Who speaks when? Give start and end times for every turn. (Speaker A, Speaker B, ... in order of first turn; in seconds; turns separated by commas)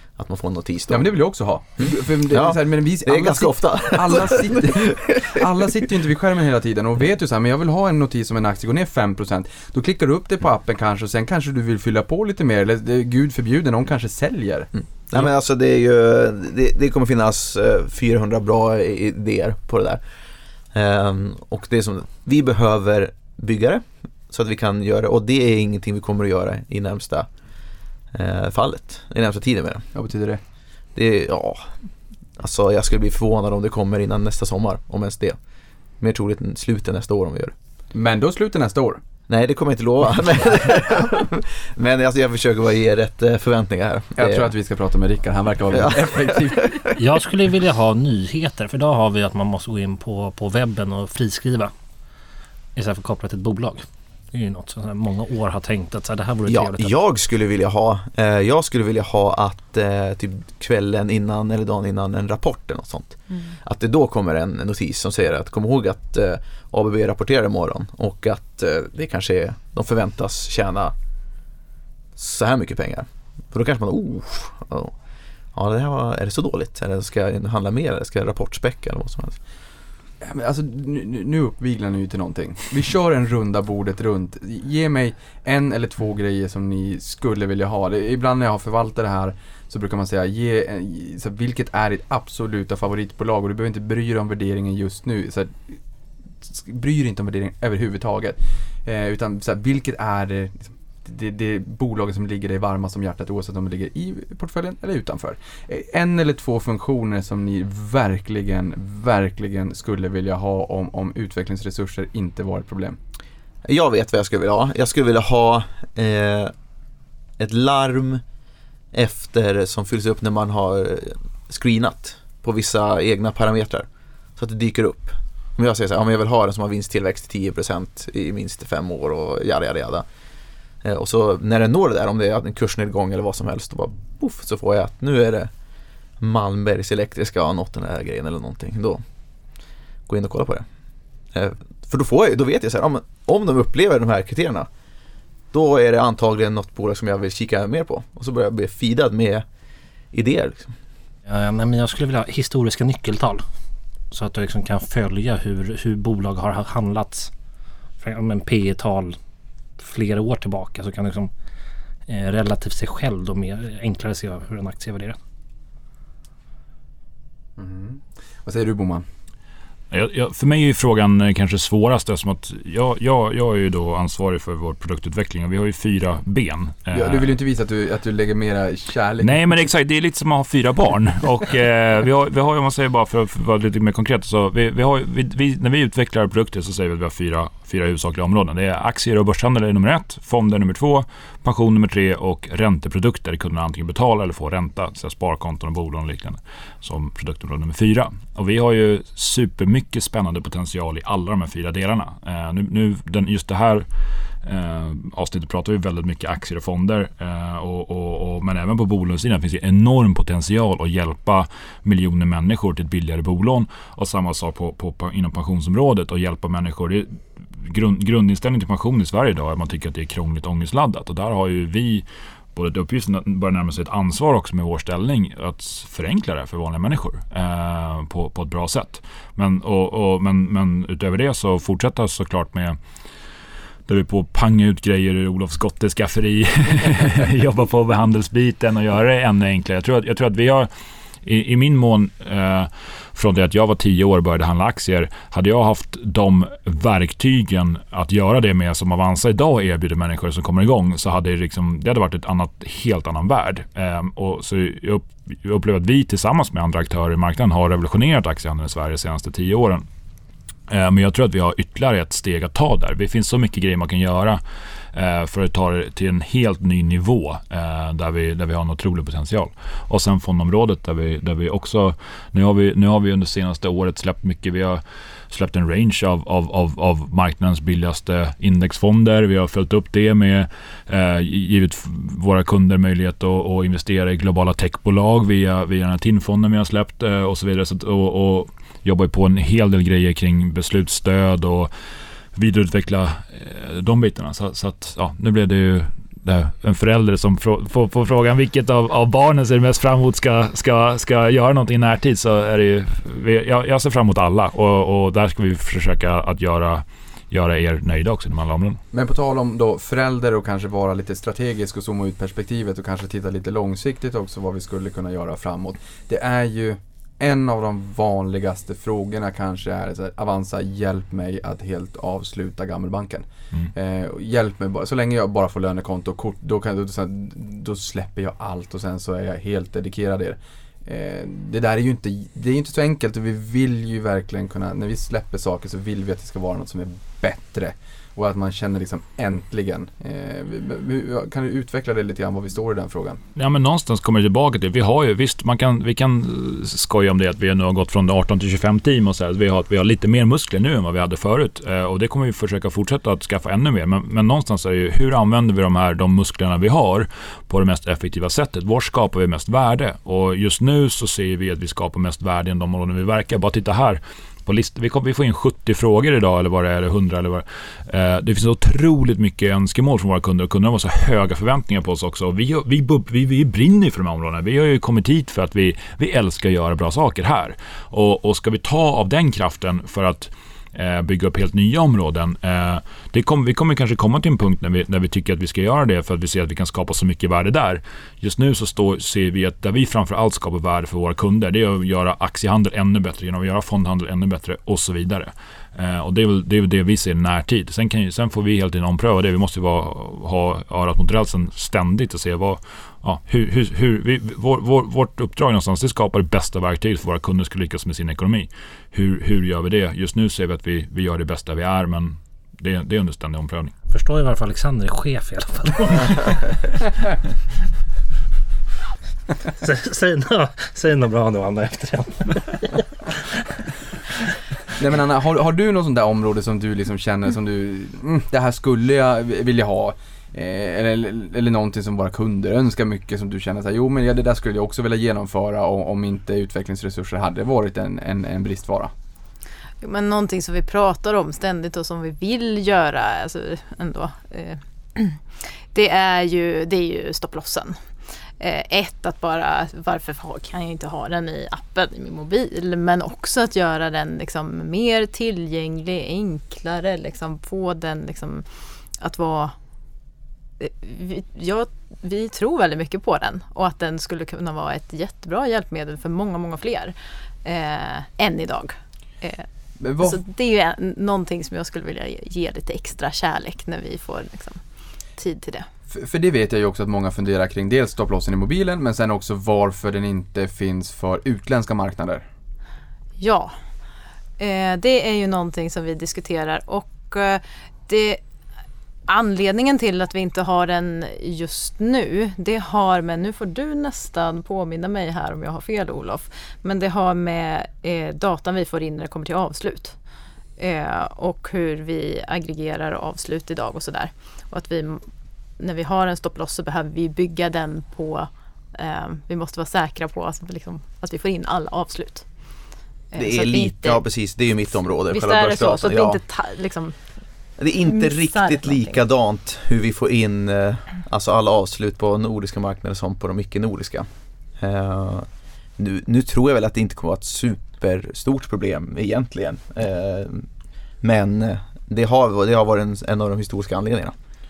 Speaker A: 0.2-1.1, Speaker B: 0.9-14.7, Speaker A: 1.8-5.5, Speaker A: 15.1-20.0, Speaker A: 20.7-27.3, Speaker A: 28.1-29.9, Speaker B: 29.9-30.4, Speaker A: 30.9-31.7, Speaker A: 32.4-35.4, Speaker A: 36.0-37.5, Speaker B: 37.9-39.0, Speaker A: 39.3-44.5, Speaker B: 44.2-46.9, Speaker A: 45.7-46.9, Speaker C: 47.0-51.7, Speaker C: 52.8-56.9, Speaker A: 56.5-70.9, Speaker A: 72.2-74.9, Speaker A: 75.5-79.4, Speaker B: 80.2-95.8, Speaker B: 96.4-113.0, Speaker A: 113.7-116.5, Speaker A: 117.4-118.2, Speaker A: 118.9-130.1, Speaker A: 130.8-135.5, Speaker A: 136.2-139.0, Speaker A: 140.1-140.7, Speaker A: 141.3-144.7, Speaker A: 145.5-149.5, Speaker A: 150.1-150.8, Speaker C: 151.3-153.4, Speaker C: 154.1-157.3, Speaker C: 158.0-159.2, Speaker C: 159.8-161.3, Speaker C: 162.1-165.2, Speaker B: 167.6-169.1, Speaker D: 169.9-177.3, Speaker B: 176.9-179.5, Speaker D: 179.2-203.9, Speaker D: 204.4-232.8, Speaker D: 233.9-240.7, Speaker D: 241.2-259.9, Speaker D: 260.7-264.4, Speaker D: 264.9-291.7, Speaker D: 292.3-308.8, Speaker B: 308.9-343.2, Speaker D: 343.4-413.8, Speaker C: 413.9-416.4, Speaker C: 419.6-423.2, Speaker B: 424.8-438.9, Speaker E: 439.8-445.2, Speaker E: 445.7-447.8, Speaker E: 448.4-458.4, Speaker E: 459.0-459.6, Speaker E: 460.6-469.5, Speaker B: 469.8-470.2, Speaker E: 470.0-474.6, Speaker E: 475.2-475.7, Speaker B: 475.9-482.2, Speaker E: 483.2-483.6, Speaker E: 484.4-488.2, Speaker E: 489.1-500.0, Speaker E: 500.6-505.1, Speaker E: 505.6-512.3, Speaker E: 513.1-514.0, Speaker A: 513.2-516.2, Speaker E: 515.1-517.0, Speaker A: 517.6-524.1, Speaker E: 517.8-519.0, Speaker A: 524.6-530.5, Speaker A: 531.0-534.1